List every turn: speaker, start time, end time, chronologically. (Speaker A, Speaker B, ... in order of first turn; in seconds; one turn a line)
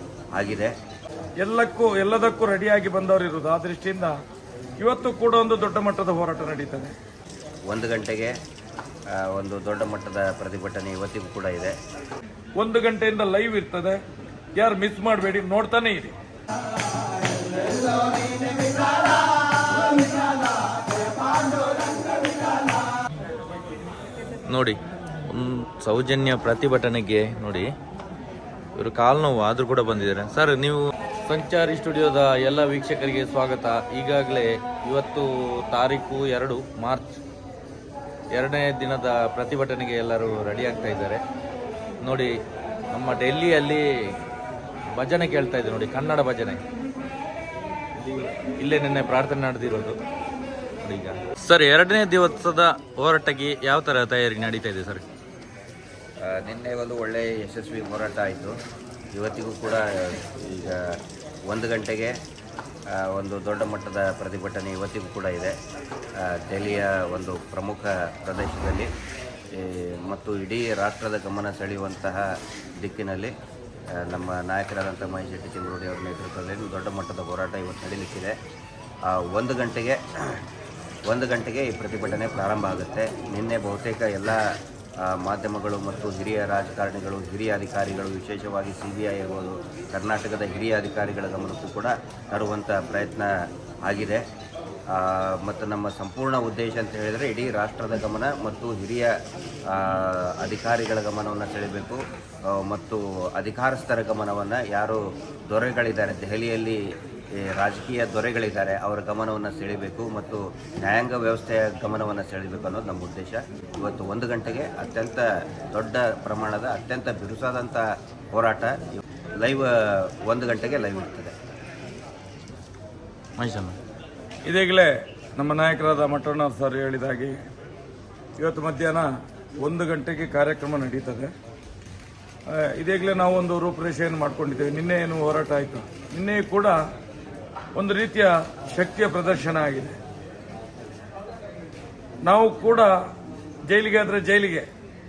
Speaker A: 0.3-0.7
Speaker B: 1.4-4.1
Speaker B: 4.8-7.0
Speaker A: 7.7-8.3
Speaker A: 9.2-11.7
Speaker B: 12.6-14.0
Speaker B: 14.6-16.2
Speaker C: 24.5-24.8
Speaker C: 25.3-27.7
Speaker C: 28.8-37.2
Speaker C: 38.3-41.2
Speaker C: 42.0-42.3
Speaker C: 42.9-43.8
Speaker C: 44.9-46.6
Speaker C: 48.0-50.0
Speaker C: 50.8-55.0
Speaker A: 56.3-58.5
Speaker A: 59.1-61.0
Speaker A: 61.5-62.1
Speaker A: 62.9-65.5
Speaker A: 66.2-68.9
Speaker A: 69.5-72.2
Speaker A: 72.8-73.3
Speaker A: 74.0-78.3
Speaker A: 79.1-80.0
Speaker A: 81.1-84.4
Speaker A: 85.0-93.3
Speaker A: 93.8-94.2
Speaker A: 94.9-99.1
Speaker A: 99.7-106.8
Speaker A: 107.4-119.7
Speaker A: 120.3-121.3
Speaker C: 123.4-123.8
Speaker B: 124.5-127.4
Speaker B: 128.4-129.1
Speaker B: 129.6-131.3
Speaker B: 132.5-136.8
Speaker B: 137.8-140.0
Speaker B: 142.2-142.9
Speaker B: 143.7-144.7